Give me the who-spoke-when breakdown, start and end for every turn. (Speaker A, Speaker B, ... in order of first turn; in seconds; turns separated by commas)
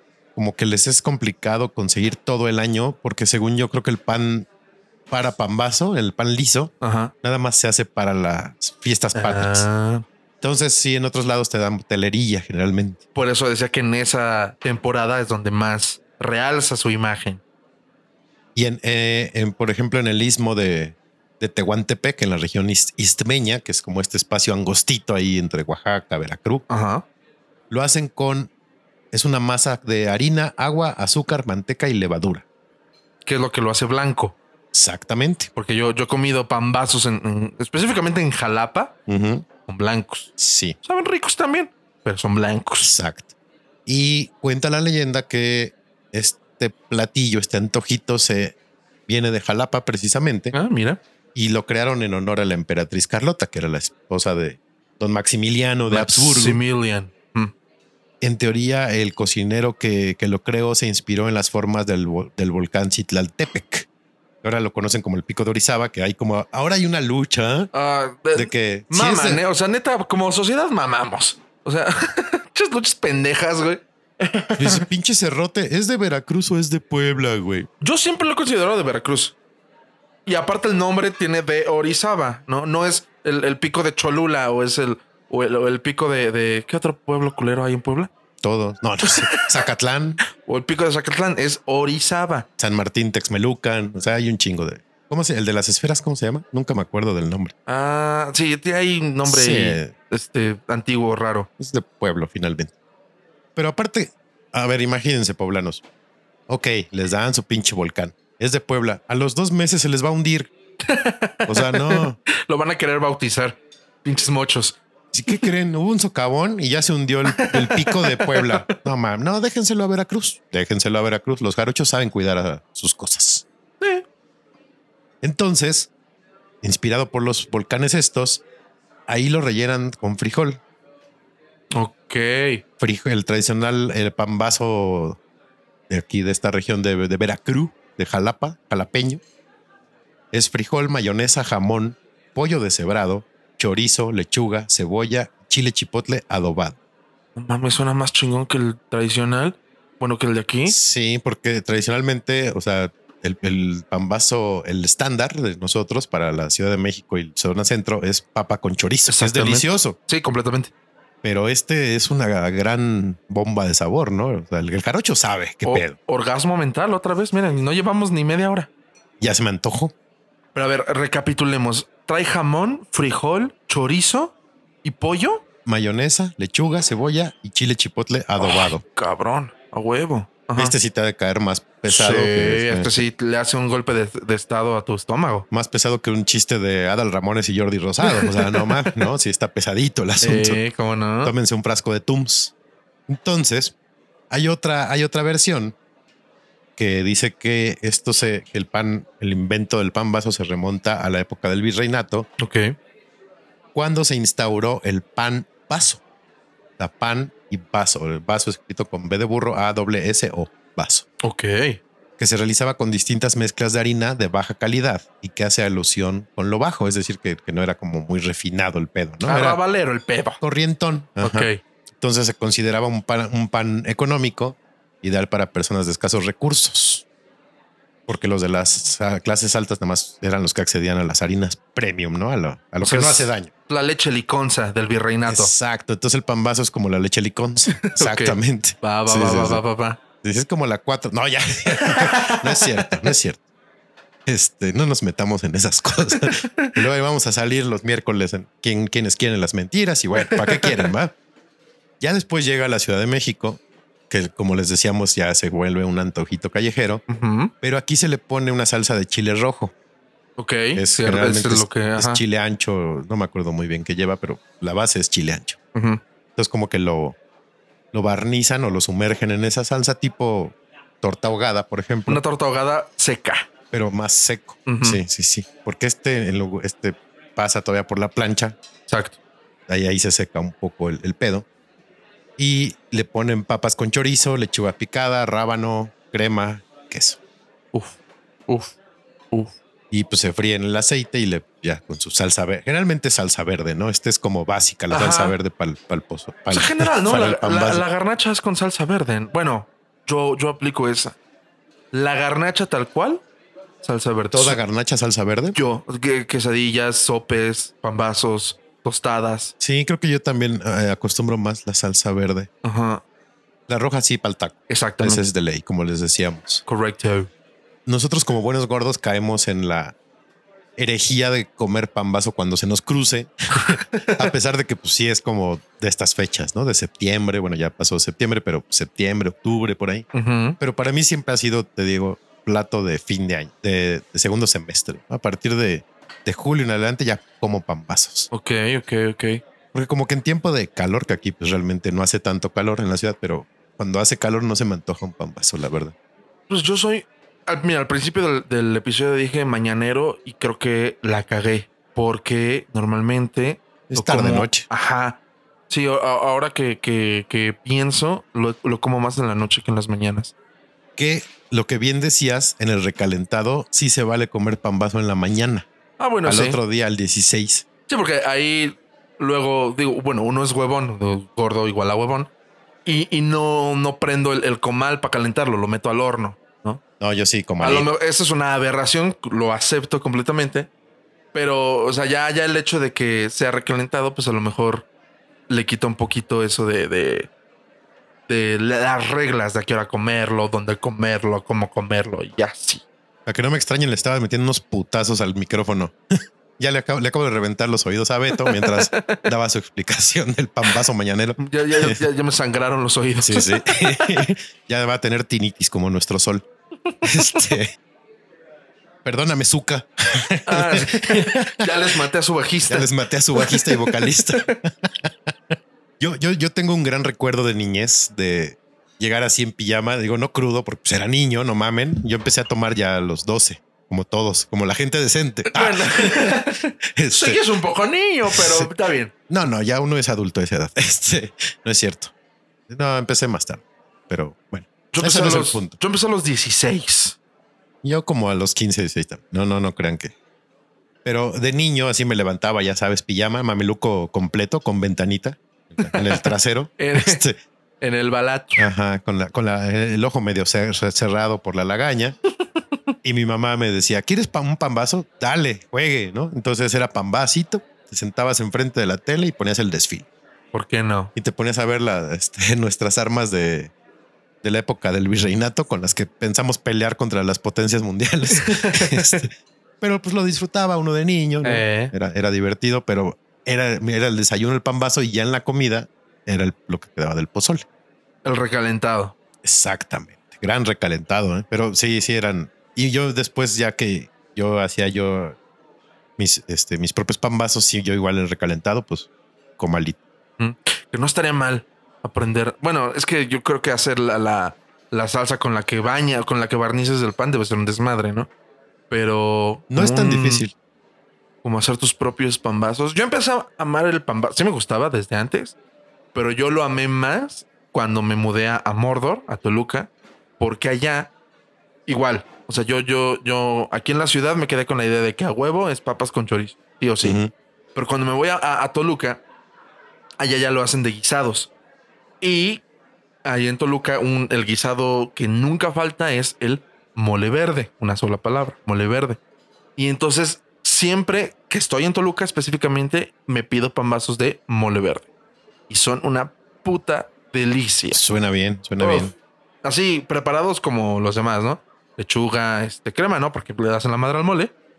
Speaker A: 0.3-4.5, Speaker A: 5.1-9.7, Speaker B: 6.8-7.1, Speaker B: 9.1-10.0, Speaker A: 10.4-13.0, Speaker B: 13.1-17.4, Speaker A: 18.5-26.6, Speaker B: 26.7-27.0, Speaker A: 27.7-28.5, Speaker A: 29.1-32.4, Speaker B: 33.2-34.4, Speaker A: 34.7-35.5, Speaker B: 35.5-38.9, Speaker A: 39.1-39.5, Speaker B: 39.6-40.3, Speaker A: 40.4-40.8, Speaker B: 40.8-42.9, Speaker A: 42.8-43.3, Speaker A: 43.9-48.5, Speaker A: 49.1-50.5, Speaker B: 50.5-51.0, Speaker A: 51.3-56.6, Speaker B: 55.9-57.5, Speaker A: 58.2-63.9, Speaker A: 64.4-67.7, Speaker B: 67.7-74.8, Speaker A: 68.3-69.4, Speaker A: 74.6-77.7, Speaker B: 77.8-79.3, Speaker B: 80.2-88.1, Speaker A: 88.4-90.2, Speaker B: 89.1-89.4, Speaker B: 90.4-92.5, Speaker A: 92.6-97.5, Speaker B: 97.7-101.5, Speaker A: 99.2-99.9, Speaker A: 101.6-102.7, Speaker A: 103.5-105.8, Speaker A: 106.5-110.5, Speaker B: 110.9-115.5, Speaker A: 111.5-112.2, Speaker A: 115.1-123.5, Speaker B: 117.3-118.7, Speaker A: 125.2-125.9, Speaker A: 126.6-128.4, Speaker A: 129.1-130.6, Speaker B: 131.7-132.6, Speaker A: 132.8-135.2, Speaker A: 135.9-139.2, Speaker A: 140.3-146.8, Speaker B: 147.3-150.8, Speaker A: 150.7-160.0, Speaker B: 159.1-160.7, Speaker A: 161.2-165.9, Speaker B: 165.6-168.7, Speaker A: 169.2-169.9, Speaker B: 170.5-175.4, Speaker A: 175.7-178.8, Speaker B: 178.4-180.7, Speaker A: 180.6-183.1, Speaker B: 181.8-185.4, Speaker A: 185.5-190.6, Speaker B: 188.0-189.1, Speaker B: 190.2-191.3, Speaker A: 191.2-192.5, Speaker A: 193.1-193.7, Speaker A: 194.3-195.8, Speaker A: 196.8-202.3, Speaker B: 202.4-202.8, Speaker A: 203.7-206.0, Speaker A: 206.8-211.1, Speaker B: 211.2-211.8, Speaker A: 212.2-219.6, Speaker B: 219.2-220.4, Speaker A: 220.4-227.0, Speaker B: 221.2-221.6, Speaker A: 228.1-233.5, Speaker B: 232.8-235.5, Speaker A: 235.3-239.6, Speaker B: 237.8-240.0, Speaker A: 240.2-243.4, Speaker B: 241.8-242.9, Speaker A: 244.2-251.1, Speaker B: 246.1-246.8, Speaker B: 250.2-250.9, Speaker A: 252.0-257.0, Speaker B: 257.1-257.5, Speaker A: 257.6-259.7, Speaker B: 260.4-262.2, Speaker A: 260.7-265.6, Speaker B: 265.7-266.0, Speaker A: 266.4-267.1, Speaker A: 267.9-272.2, Speaker B: 272.1-273.5, Speaker A: 273.7-278.6, Speaker B: 274.6-275.0, Speaker B: 278.9-279.2, Speaker A: 279.7-281.4, Speaker A: 282.4-287.2, Speaker B: 288.5-288.7, Speaker A: 289.9-297.8, Speaker B: 294.9-295.3, Speaker B: 296.5-301.1, Speaker B: 301.9-303.2, Speaker B: 303.8-304.6, Speaker A: 304.3-305.6, Speaker B: 305.5-309.5, Speaker A: 309.6-312.5, Speaker B: 312.6-313.0, Speaker A: 313.7-316.6, Speaker B: 314.7-315.2, Speaker B: 316.6-317.3, Speaker A: 317.9-319.9, Speaker A: 320.8-330.1, Speaker B: 323.6-324.3, Speaker B: 330.1-330.6, Speaker A: 330.6-338.3, Speaker B: 338.3-339.4, Speaker A: 339.7-345.9, Speaker B: 346.5-360.3, Speaker A: 353.9-354.7, Speaker A: 361.0-365.7, Speaker B: 366.0-366.6, Speaker A: 366.2-367.6, Speaker B: 367.9-372.3, Speaker B: 372.8-376.8, Speaker A: 377.0-377.9, Speaker B: 377.6-380.7, Speaker B: 381.3-384.9, Speaker B: 385.5-387.3, Speaker B: 388.3-392.8, Speaker A: 393.2-396.0, Speaker A: 396.6-402.0, Speaker B: 398.4-399.2, Speaker B: 401.4-404.2, Speaker A: 403.2-406.4, Speaker B: 406.9-407.5, Speaker A: 407.0-407.7, Speaker A: 409.0-411.7, Speaker B: 410.5-414.6, Speaker A: 412.7-426.4, Speaker B: 425.5-429.1, Speaker A: 426.9-427.4, Speaker A: 428.3-428.7, Speaker A: 429.3-432.1, Speaker A: 432.7-435.8, Speaker B: 434.9-437.2, Speaker A: 437.8-440.1, Speaker A: 441.0-447.4, Speaker B: 445.8-447.2, Speaker B: 447.8-448.7, Speaker A: 448.6-452.2, Speaker A: 453.0-460.1, Speaker B: 460.5-461.1, Speaker A: 461.1-463.7, Speaker A: 464.4-477.6, Speaker B: 468.3-469.2, Speaker B: 471.4-471.9, Speaker B: 478.2-479.1, Speaker A: 479.4-485.4, Speaker A: 486.2-490.0, Speaker B: 490.4-498.3, Speaker B: 498.9-500.4, Speaker A: 499.7-500.5, Speaker B: 501.4-505.6, Speaker B: 506.1-511.1, Speaker B: 511.9-517.2, Speaker A: 517.0-517.3, Speaker B: 517.7-519.2, Speaker B: 520.2-521.5, Speaker B: 522.2-522.6, Speaker B: 523.2-529.2, Speaker B: 529.8-535.1, Speaker B: 535.7-538.0, Speaker A: 537.9-539.1, Speaker B: 538.8-539.1, Speaker B: 539.6-544.5